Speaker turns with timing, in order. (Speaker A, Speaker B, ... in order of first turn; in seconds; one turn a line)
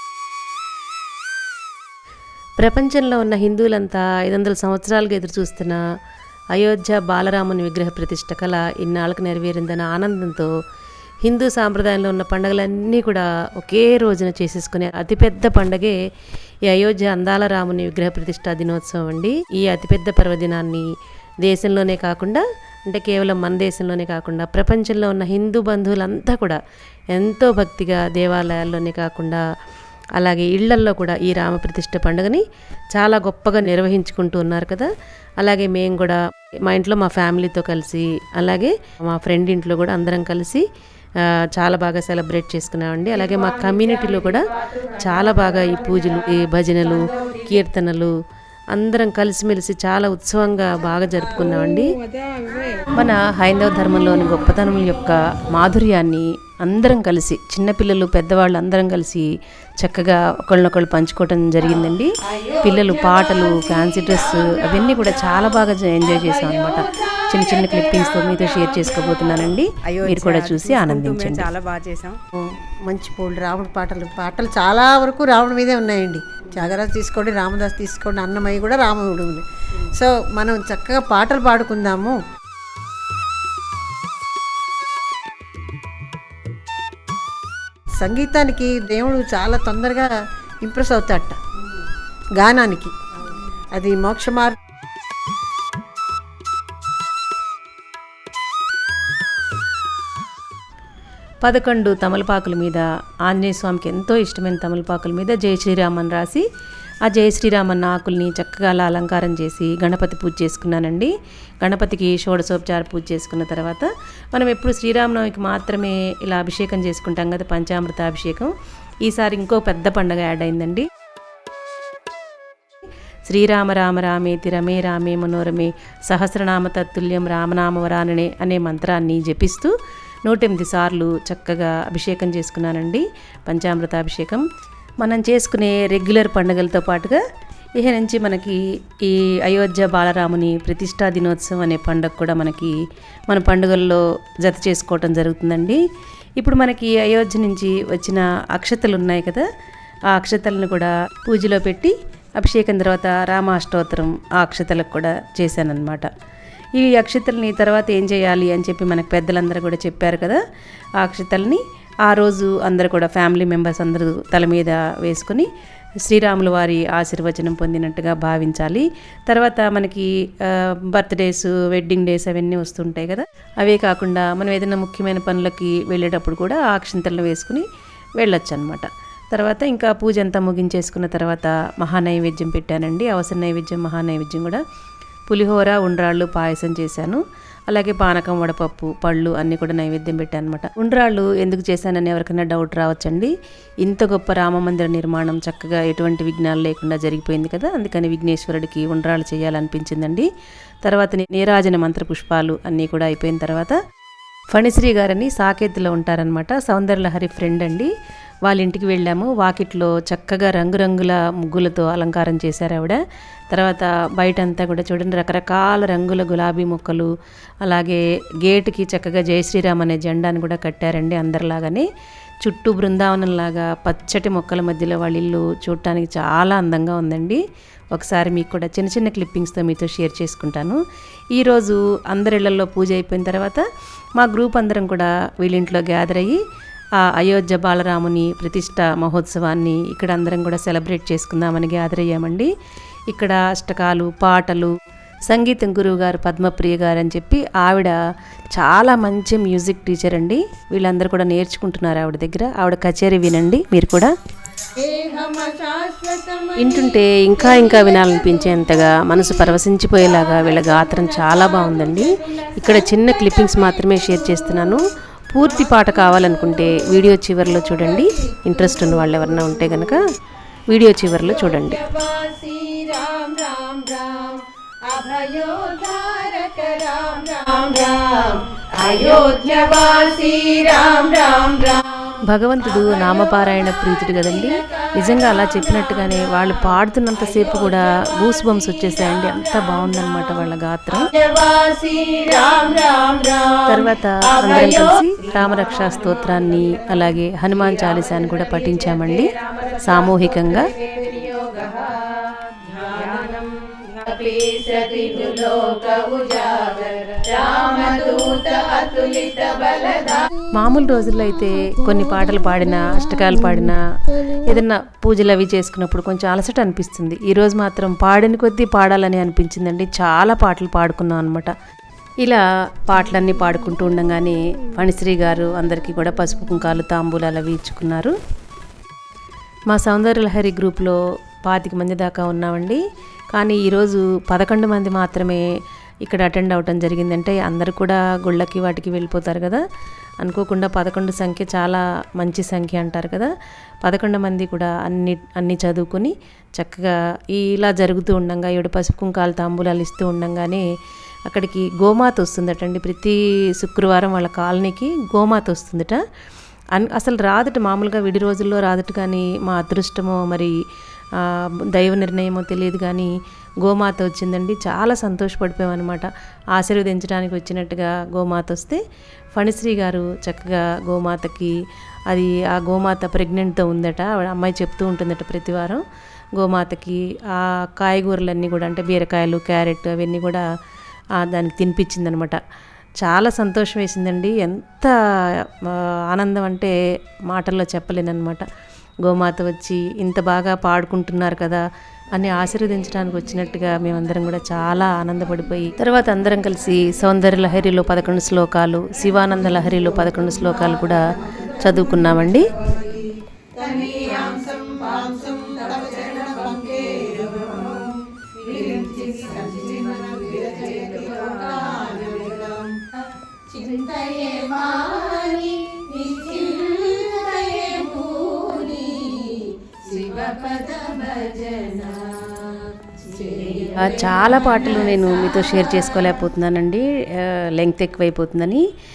Speaker A: 2.6-5.8
Speaker A: 6.5-10.5
Speaker A: 11.2-16.0
Speaker A: 16.7-20.9
Speaker A: 21.4-26.6
Speaker A: 27.1-29.4
Speaker A: 30.2-32.4
Speaker A: 33.0-40.6
Speaker A: 41.5-48.1
Speaker A: 48.7-52.0
Speaker A: 52.9-71.5
Speaker B: 62.3-69.5
Speaker C: 69.9-72.2
Speaker D: 72.4-82.2
Speaker D: 88.0-90.1
Speaker D: 90.6-91.4
Speaker D: 92.4-93.0
Speaker D: 93.7-94.6
Speaker A: 101.4-106.5
Speaker A: 107.1-118.5
Speaker A: 119.0-120.9
Speaker A: 123.3-129.7
Speaker A: 130.3-134.4
Speaker A: 135.0-137.2
Speaker A: 137.8-142.8
Speaker A: 143.3-145.8
Speaker A: 146.4-149.5
Speaker A: 150.1-156.1
Speaker A: 156.8-160.4
Speaker A: 161.0-165.5
Speaker A: 166.0-177.7
Speaker A: 178.2-184.6
Speaker A: 185.3-200.3
Speaker A: 200.8-203.8
Speaker A: 204.5-207.9
Speaker A: 208.5-213.0
Speaker A: 213.5-217.1
Speaker A: 217.6-221.9
Speaker A: 222.4-227.4
Speaker A: 227.9-230.8
Speaker A: 231.3-233.7
Speaker A: 234.2-236.4
Speaker A: 237.0-242.5
Speaker A: 243.1-244.7
Speaker A: 245.3-247.9
Speaker A: 248.6-254.1
Speaker B: 254.8-264.8
Speaker A: 256.6-270.0
Speaker B: 265.4-269.9
Speaker A: 270.7-271.8
Speaker B: 271.1-286.7
Speaker A: 282.3-291.1
Speaker B: 287.2-290.0
Speaker B: 291.1-295.3
Speaker A: 293.7-299.3
Speaker B: 298.0-302.1
Speaker A: 299.8-300.7
Speaker B: 302.6-310.3
Speaker A: 310.6-313.8
Speaker A: 314.3-321.5
Speaker A: 322.2-328.1
Speaker A: 329.7-332.8
Speaker A: 333.3-335.4
Speaker A: 336.1-339.6
Speaker A: 340.2-343.3
Speaker A: 343.8-350.6
Speaker A: 351.3-356.0
Speaker A: 356.8-360.6
Speaker A: 361.7-363.1
Speaker A: 363.6-368.8
Speaker A: 369.4-371.5
Speaker A: 372.1-375.8
Speaker A: 376.4-380.4
Speaker A: 381.2-382.4
Speaker A: 383.0-384.9
Speaker A: 385.6-386.8
Speaker A: 387.3-388.5
Speaker A: 389.1-391.6
Speaker A: 392.1-402.5
Speaker B: 402.6-412.8
Speaker B: 413.5-425.7
Speaker A: 423.8-428.6